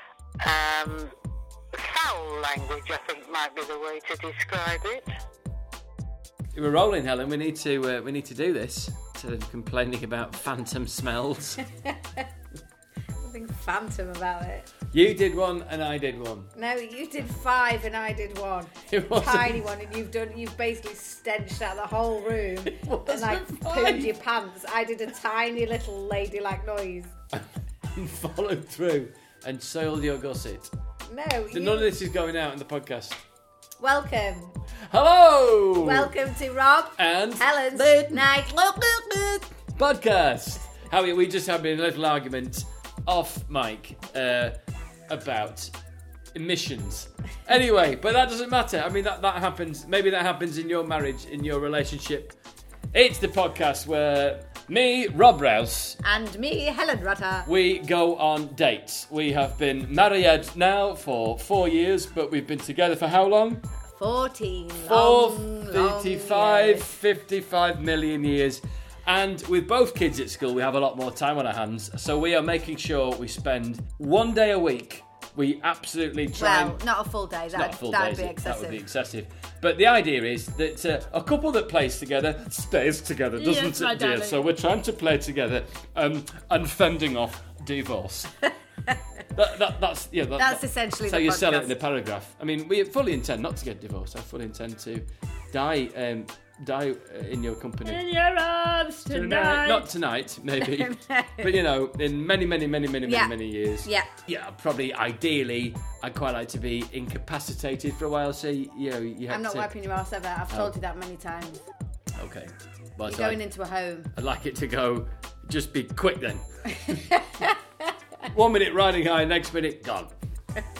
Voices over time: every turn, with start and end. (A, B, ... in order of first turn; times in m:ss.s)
0:00.4-0:01.1 A
0:01.7-0:05.1 A
0:06.5-0:11.6 B
0:13.2-0:14.7 C
0:14.9-0:16.5 B
0:16.6-0:27.1 C
0:18.9-0:19.6 B
0:22.7-0:24.1 B
0:27.3-0:30.7 B
0:31.1-0:31.9 C
0:31.5-0:33.2 B
0:33.8-0:34.5 C
0:34.9-0:36.1 B
0:35.8-0:38.5 C
0:37.0-0:44.6 B
0:45.1-0:45.7 B
0:46.3-0:52.4 B
0:52.9-0:56.0 B
0:56.0-0:57.5 C
0:57.5-1:03.6 B
1:04.0-1:06.9 C
1:04.8-1:16.8 B
1:16.4-1:18.8 C
1:17.5-1:28.3 B
1:29.4-1:38.4 B
1:30.4-1:31.8 C
1:38.6-1:39.8 C
1:39.0-1:49.7 B
1:40.6-1:41.5 C
1:43.0-1:43.3 C
1:49.3-1:51.6 C
1:50.5-1:50.8 B
1:52.2-1:53.4 B
1:53.1-1:54.1 C
1:54.2-1:57.0 B
1:56.9-1:57.5 C
1:58.3-2:00.1 B